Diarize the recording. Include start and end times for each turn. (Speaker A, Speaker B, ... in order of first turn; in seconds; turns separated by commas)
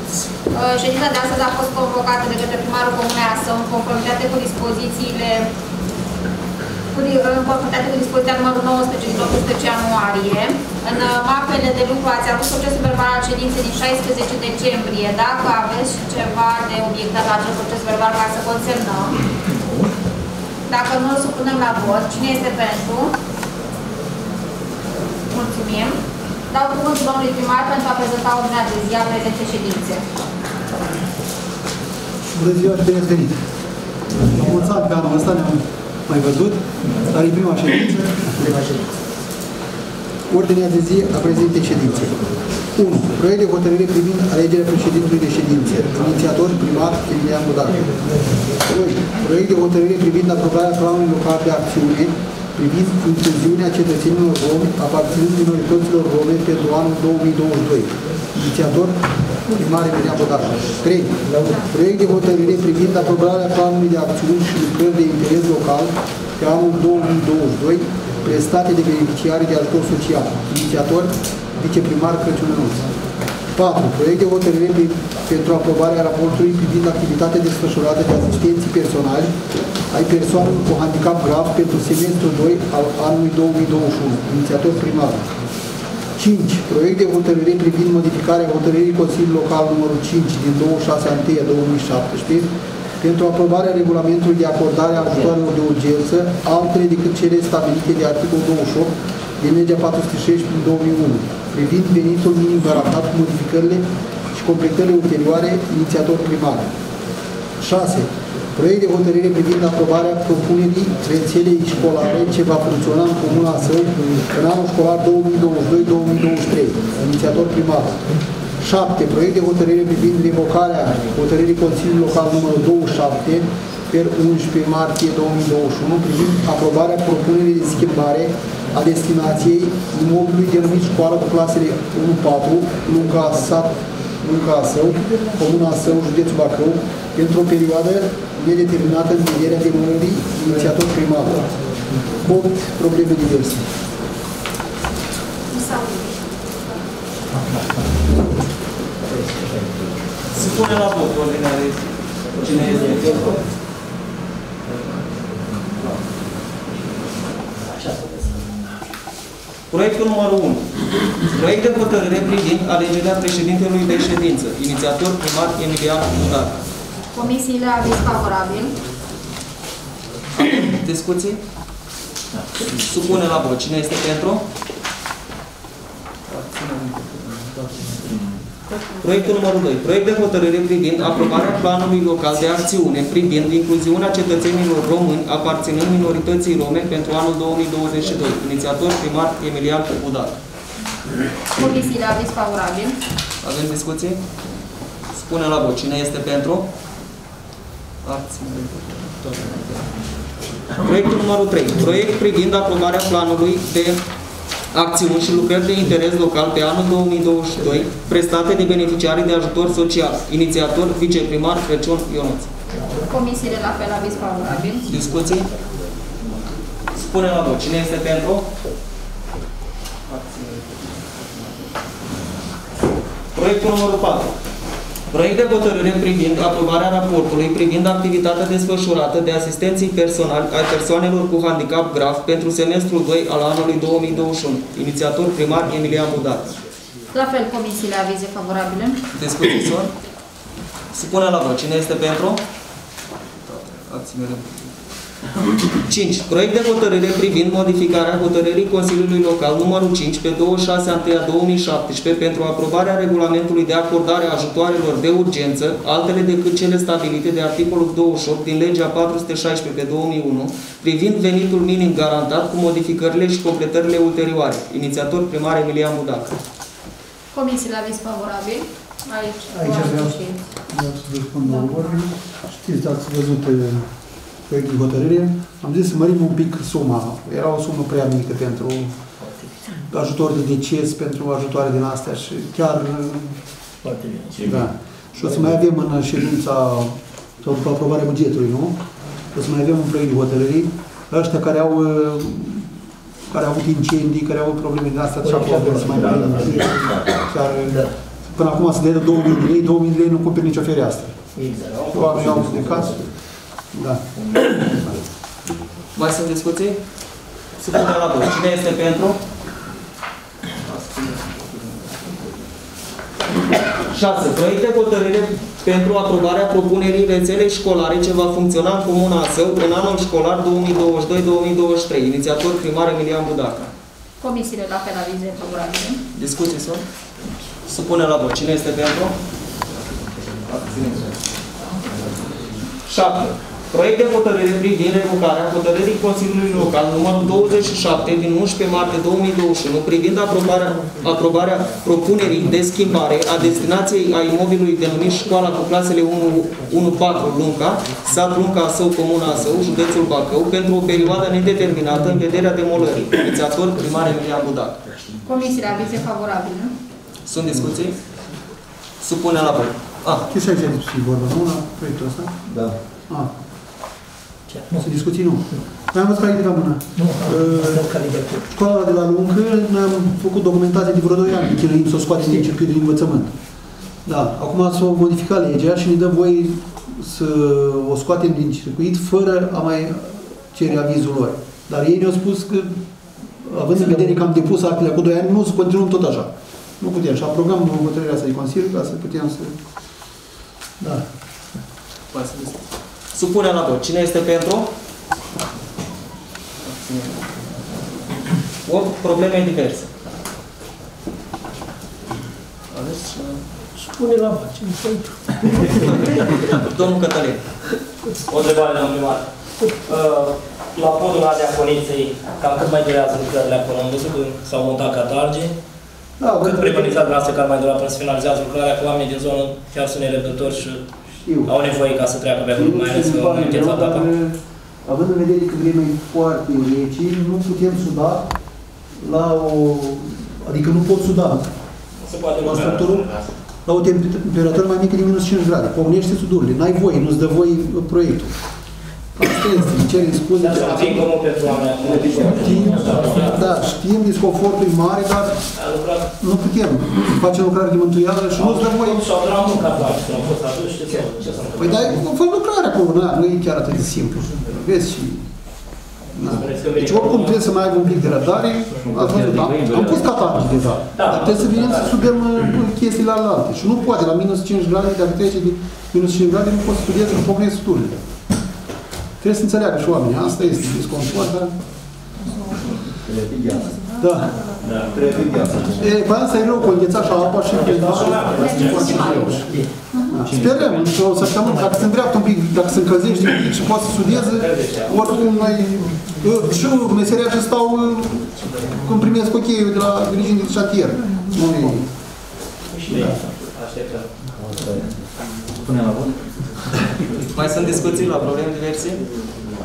Speaker A: 0.5-5.5, Speaker A: 6.9-19.2, Speaker A: 20.7-23.1, Speaker A: 25.3-26.0, Speaker A: 26.5-30.0, Speaker B: 32.3-33.4, Speaker B: 34.2-38.8, Speaker B: 40.3-42.2, Speaker B: 42.7-47.9, Speaker B: 48.6-72.9, Speaker B: 73.6-79.3, Speaker B: 79.9-85.3, Speaker B: 86.2-106.7, Speaker B: 107.6-118.0, Speaker B: 118.6-141.4, Speaker B: 142.2-143.7, Speaker A: 145.5-146.3, Speaker C: 150.3-153.4, Speaker C: 159.7-160.7, Speaker C: 161.2-166.6, Speaker A: 167.1-168.7, Speaker C: 170.4-171.4, Speaker C: 172.6-174.4, Speaker C: 176.3-178.3, Speaker C: 178.9-190.4, Speaker A: 191.6-193.0, Speaker C: 193.4-194.2, Speaker C: 195.1-196.7, Speaker C: 198.0-199.8, Speaker C: 200.7-204.0, Speaker C: 204.7-212.5, Speaker A: 212.9-214.9, Speaker C: 214.9-215.5, Speaker C: 216.9-218.5, Speaker C: 220.1-221.4, Speaker C: 223.3-224.3, Speaker C: 225.1-236.6, Speaker A: 237.1-239.0, Speaker C: 239.1-239.9, Speaker C: 240.9-242.4, Speaker C: 243.4-244.8, Speaker C: 245.7-266.4, Speaker A: 267.3-270.4, Speaker B: 269.5-270.2, Speaker B: 270.7-273.9, Speaker A: 271.4-271.8, Speaker B: 274.5-278.9, Speaker D: 279.4-279.6, Speaker B: 279.8-283.4, Speaker D: 283.9-284.4, Speaker B: 284.4-288.8, Speaker B: 289.3-292.7, Speaker B: 293.3-301.2, Speaker D: 295.3-296.8, Speaker D: 301.4-302.1, Speaker B: 301.9-303.1, Speaker B: 303.7-304.1, Speaker C: 305.9-306.8, Speaker C: 307.6-309.2, Speaker C: 310.6-312.1, Speaker C: 313.9-323.7, Speaker A: 324.2-326.0, Speaker C: 326.1-326.8, Speaker C: 327.6-329.1, Speaker C: 330.4-331.1, Speaker C: 332.9-354.8, Speaker A: 355.2-356.7, Speaker C: 357.3-358.0, Speaker C: 359.0-360.2, Speaker B: 360.3-362.4, Speaker D: 364.5-364.8, Speaker B: 364.8-373.3, Speaker D: 367.1-368.4, Speaker B: 374.1-382.8, Speaker B: 383.4-389.6, Speaker C: 392.1-394.7, Speaker C: 396.6-397.6, Speaker C: 398.6-399.9, Speaker C: 402.7-403.4, Speaker D: 403.8-405.6, Speaker C: 405.7-407.4, Speaker D: 408.2-415.6, Speaker B: 416.2-417.1, Speaker D: 416.4-420.8, Speaker B: 421.2-421.5, Speaker D: 421.5-424.1, Speaker B: 422.5-428.3, Speaker B: 429.0-431.5, Speaker D: 432.0-433.3, Speaker B: 432.4-433.1, Speaker B: 433.7-438.3, Speaker B: 439.2-441.1, Speaker D: 440.4-443.5, Speaker B: 442.2-445.4, Speaker D: 445.6-446.1, Speaker B: 446.2-449.0, Speaker D: 448.4-451.9, Speaker B: 451.6-455.2, Speaker B: 456.1-468.0, Speaker D: 456.2-457.4, Speaker E: 458.9-459.9, Speaker D: 461.0-461.9, Speaker B: 469.2-471.6, Speaker E: 473.1-473.7, Speaker B: 473.8-474.5, Speaker D: 474.6-474.9, Speaker E: 474.9-475.7, Speaker B: 475.6-491.9, Speaker D: 477.4-479.4, Speaker A: 478.4-480.2, Speaker D: 484.1-484.9, Speaker D: 492.7-494.2, Speaker B: 492.9-493.2, Speaker E: 494.5-494.9, Speaker E: 495.6-496.2, Speaker C: 497.3-499.0